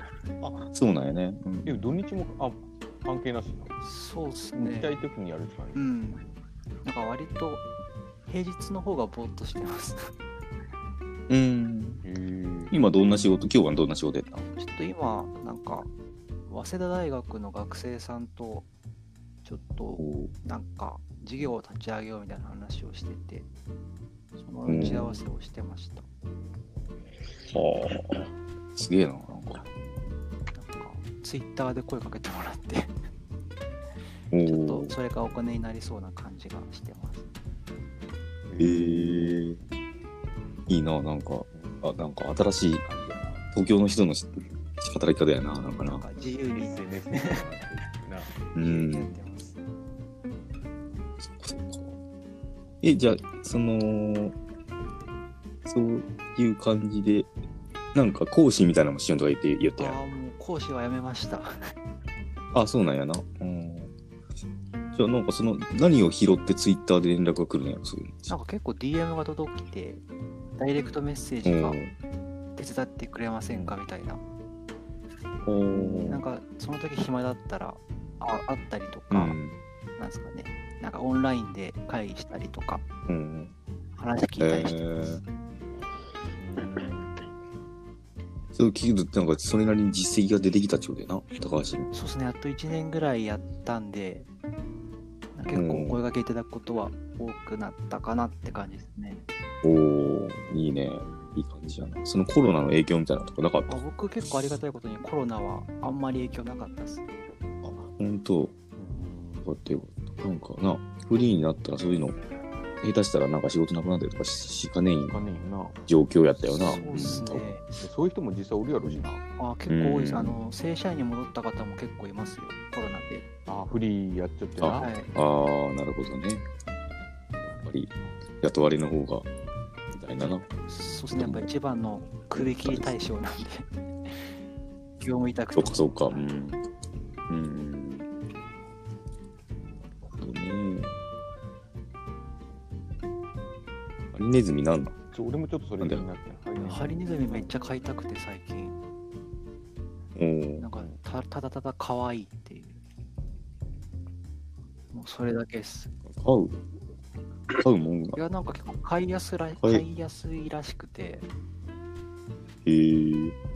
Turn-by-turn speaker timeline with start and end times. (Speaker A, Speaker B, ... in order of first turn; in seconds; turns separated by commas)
Speaker A: 0.4-2.0, Speaker B: 1.6-3.8, Speaker C: 3.8-5.0, Speaker B: 4.5-5.9, Speaker C: 5.7-6.2, Speaker C: 6.8-7.7, Speaker C: 8.2-10.1, Speaker A: 11.3-12.0, Speaker B: 12.0-12.8, Speaker A: 12.7-14.4, Speaker C: 14.5-15.9, Speaker C: 16.5-18.7, Speaker C: 19.4-23.5, Speaker A: 20.0-20.3, Speaker C: 24.4-26.1, Speaker A: 24.6-25.2, Speaker A: 27.5-29.6, Speaker C: 30.5-33.0, Speaker A: 34.3-35.0, Speaker C: 34.4-37.2, Speaker B: 38.5-39.4, Speaker A: 38.6-39.6, Speaker A: 40.7-42.8, Speaker B: 41.5-42.0, Speaker B: 42.8-43.4, Speaker A: 43.5-46.0, Speaker C: 45.8-47.4, Speaker B: 46.5-48.4, Speaker A: 48.5-49.2, Speaker C: 48.5-49.6, Speaker A: 51.2-52.0, Speaker A: 52.8-54.4, Speaker A: 55.6-57.3, Speaker A: 57.9-60.0, Speaker C: 59.8-61.7, Speaker A: 62.5-63.9, Speaker A: 64.9-68.3, Speaker C: 68.3-70.0, Speaker C: 70.6-71.8, Speaker A: 71.4-72.0, Speaker C: 72.5-74.2, Speaker A: 75.4-76.2, Speaker C: 75.7-79.4, Speaker A: 79.1-79.6, Speaker C: 80.0-82.8, Speaker A: 83.1-83.5, Speaker C: 84.0-85.0, Speaker A: 84.4-85.2, Speaker B: 86.4-87.2, Speaker A: 88.5-91.9, Speaker C: 91.9-94.3, Speaker C: 95.3-99.2, Speaker A: 95.5-96.0, Speaker A: 99.6-103.8, Speaker C: 103.7-107.0, Speaker A: 107.6-108.5, Speaker B: 108.8-109.5, Speaker A: 109.4-112.2, Speaker A: 112.8-115.2, Speaker B: 115.1-115.8, Speaker A: 115.9-117.5, Speaker C: 116.6-117.8, Speaker B: 116.6-119.2, Speaker C: 119.4-123.2, Speaker A: 119.7-120.4, Speaker B: 123.5-124.9, Speaker A: 124.6-126.4, Speaker C: 124.8-125.1, Speaker A: 127.5-129.3, Speaker A: 129.9-130.5, Speaker C: 130.7-134.3, Speaker A: 131.1-131.5, Speaker A: 132.3-133.0, Speaker C: 135.0-136.3, Speaker A: 135.5-136.6, Speaker A: 137.3-138.1, Speaker A: 140.1-140.9, Speaker A: 144.1-144.9, Speaker B: 145.1-147.6, Speaker A: 145.8-146.1, Speaker C: 146.6-148.8, Speaker A: 150.1-150.7, Speaker C: 150.6-152.8, Speaker C: 154.9-155.9, Speaker A: 156.0-156.6, Speaker A: 157.5-158.2, Speaker C: 158.1-161.3, Speaker A: 162.6-163.3